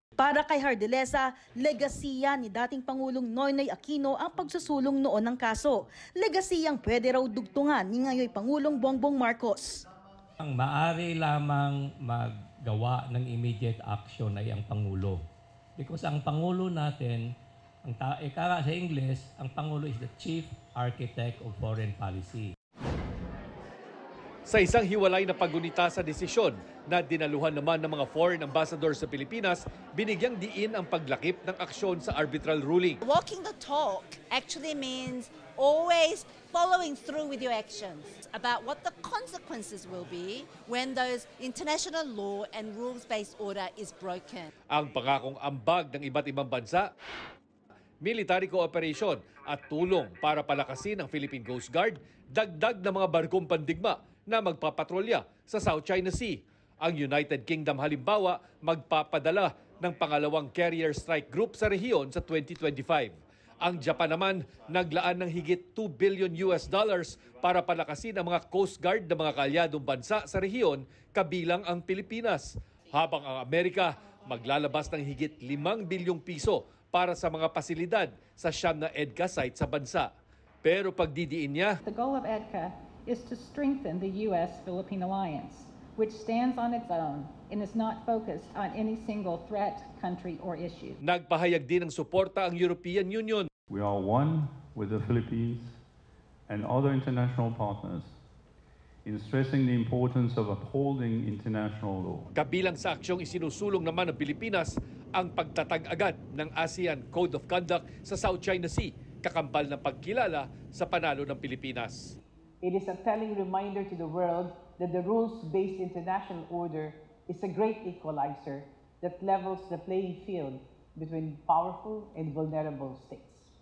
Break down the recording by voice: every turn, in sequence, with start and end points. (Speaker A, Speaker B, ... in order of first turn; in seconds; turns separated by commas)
Speaker A: 0.2-9.8, Speaker B: 10.4-15.2, Speaker B: 15.8-17.2, Speaker B: 17.8-22.5, Speaker C: 24.5-33.0, Speaker D: 33.0-44.5, Speaker C: 44.7-46.9, Speaker C: 48.0-80.1, Speaker C: 80.6-81.8, Speaker E: 81.8-91.0, Speaker C: 91.0-93.5, Speaker F: 93.7-95.8, Speaker F: 96.5-98.1, Speaker F: 99.0-102.3, Speaker C: 102.3-112.2, Speaker G: 112.6-123.5